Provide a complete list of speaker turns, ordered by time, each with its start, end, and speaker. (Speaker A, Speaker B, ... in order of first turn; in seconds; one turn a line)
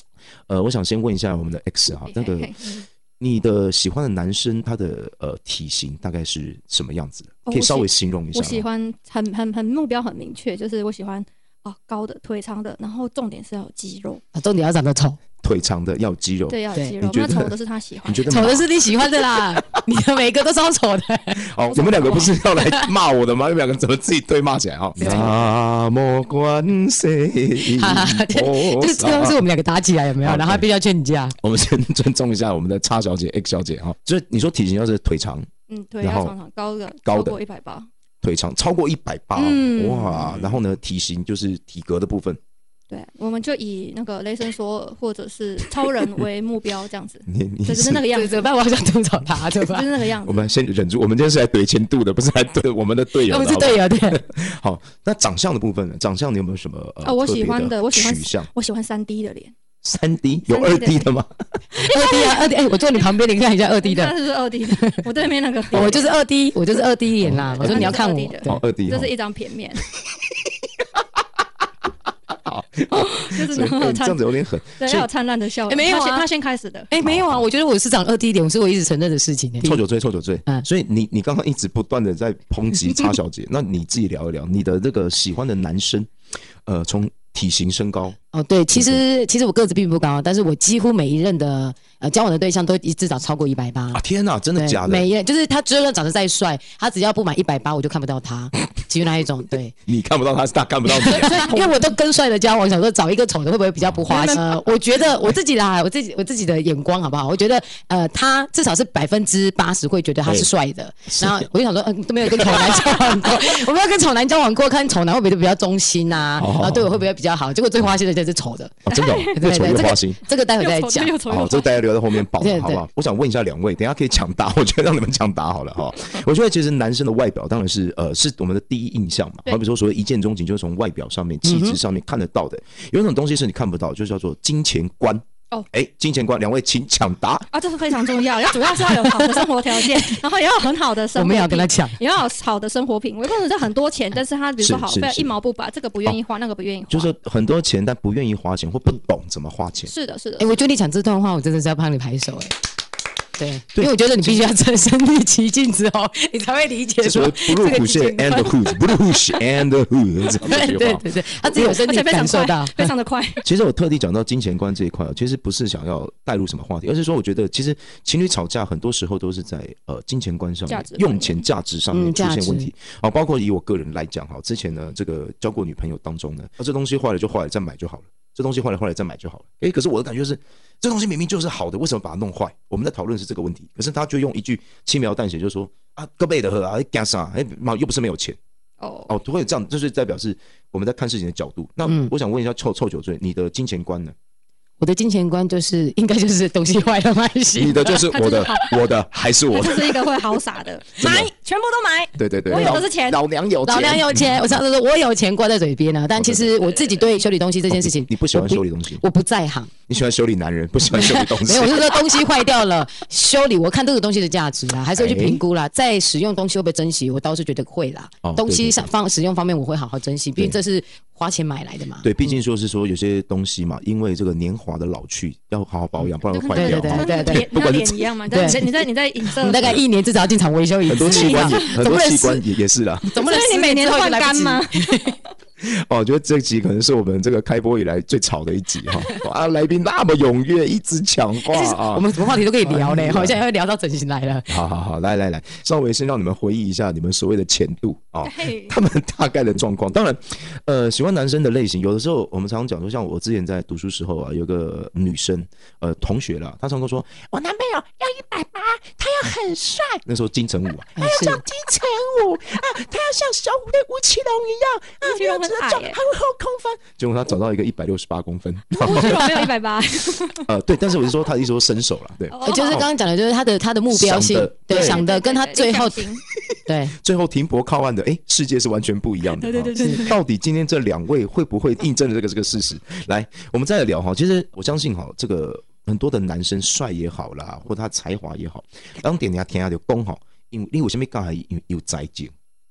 Speaker A: 0.5-2.6
Speaker B: 1.9-2.9
Speaker A: 3.2-8.7
Speaker B: 7.5-14.2
Speaker C: 14.3-15.2
Speaker A: 15.4-18.9
Speaker B: 16.5-18.6
Speaker C: 18.3-22.9
Speaker A: 21.4-29.4
Speaker B: 21.8-22.3
Speaker C: 25.0-25.4
Speaker C: 27.6-31.4
Speaker A: 30.2-30.6
Speaker A: 31.4-35.5
Speaker B: 35.7-37.9
Speaker A: 36.0-36.4
Speaker A: 37.0-37.4
Speaker A: 38.2-42.4
Speaker B: 39.4-40.5
Speaker B: 42.9-48.5
Speaker A: 47.3-48.1
Speaker C: 48.1-49.9
Speaker B: 49.6-50.5
Speaker A: 50.2-58.5
Speaker C: 53.2-54.2
Speaker B: 57.0-59.5
Speaker A: 59.8-61.3
Speaker B: 60.5-61.1
Speaker B: 61.7-63.1
Speaker C: 61.8-65.0
Speaker B: 63.8-66.0
Speaker C: 65.7-68.7
Speaker A: 65.7-66.0
Speaker A: 67.2-69.1
Speaker B: 67.5-69.8
Speaker A: 72.4-75.1
Speaker B: 72.9-74.2
Speaker B: 74.8-76.9
Speaker C: 75.7-76.3
Speaker C: 76.9-79.8
Speaker A: 77.0-77.5
Speaker A: 79.6-86.1
Speaker A: 86.7-88.2
Speaker C: 88.3-94.0
Speaker A: 88.7-89.0
Speaker A: 93.9-95.1
Speaker C: 94.6-99.8
Speaker A: 99.9-101.7
Speaker C: 100.9-118.8
Speaker B: 104.1-104.4
Speaker A: 111.2-111.5
Speaker A: 112.3-113.1
Speaker A: 116.4-117.0
Speaker A: 118.9-120.2
Speaker B: 118.9-119.4
Speaker C: 119.4-121.2
Speaker B: 120.6-122.2
Speaker A: 121.3-137.5
Speaker C: 122.4-122.8
Speaker C: 131.4-131.8
Speaker B: 137.5-147.1
Speaker C: 138.8-140.0
Speaker C: 141.2-142.0
Speaker A: 144.6-145.3
Speaker A: 146.9-149.9
Speaker B: 149.9-150.5
Speaker C: 150.4-152.5
Speaker C: 153.4-158.7
Speaker A: 153.7-154.5
Speaker A: 157.0-161.0
Speaker C: 160.4-162.9
Speaker B: 161.4-163.4
Speaker A: 163.4-188.4
Speaker B: 170.7-171.4
Speaker C: 171.9-172.7
Speaker B: 188.8-189.1
Speaker A: 189.1-194.1
Speaker C: 191.9-192.1
Speaker C: 194.8-198.1
Speaker A: 197.6-200.1
Speaker B: 197.8-198.8
Speaker B: 199.5-203.2
Speaker A: 201.0-201.3
Speaker A: 202.2-204.5
Speaker C: 202.5-202.8
Speaker C: 203.6-209.7
Speaker A: 206.2-206.5
Speaker B: 206.6-207.1
Speaker A: 207.7-209.0
Speaker A: 209.9-212.0
Speaker C: 210.9-222.4
Speaker A: 214.9-215.4
Speaker A: 218.2-218.9
Speaker A: 222.0-228.6
Speaker C: 226.0-227.5
Speaker B: 226.2-229.7
Speaker C: 228.3-228.7
Speaker C: 229.4-232.4
Speaker A: 230.9-233.1
Speaker B: 231.1-231.8
Speaker C: 233.1-235.2
Speaker B: 233.2-235.2
Speaker A: 235.6-243.4
Speaker C: 241.5-244.5
Speaker A: 244.5-269.5
Speaker B: 248.2-248.8
Speaker C: 261.0-261.4
Speaker B: 265.0-266.0
Speaker B: 268.7-270.5
Speaker A: 270.5-272.9
Speaker B: 272.3-272.9
Speaker C: 272.4-276.1
Speaker A: 273.9-275.0
Speaker B: 274.7-276.2
Speaker C: 276.7-276.9
Speaker A: 277.0-292.3
Speaker B: 279.4-280.2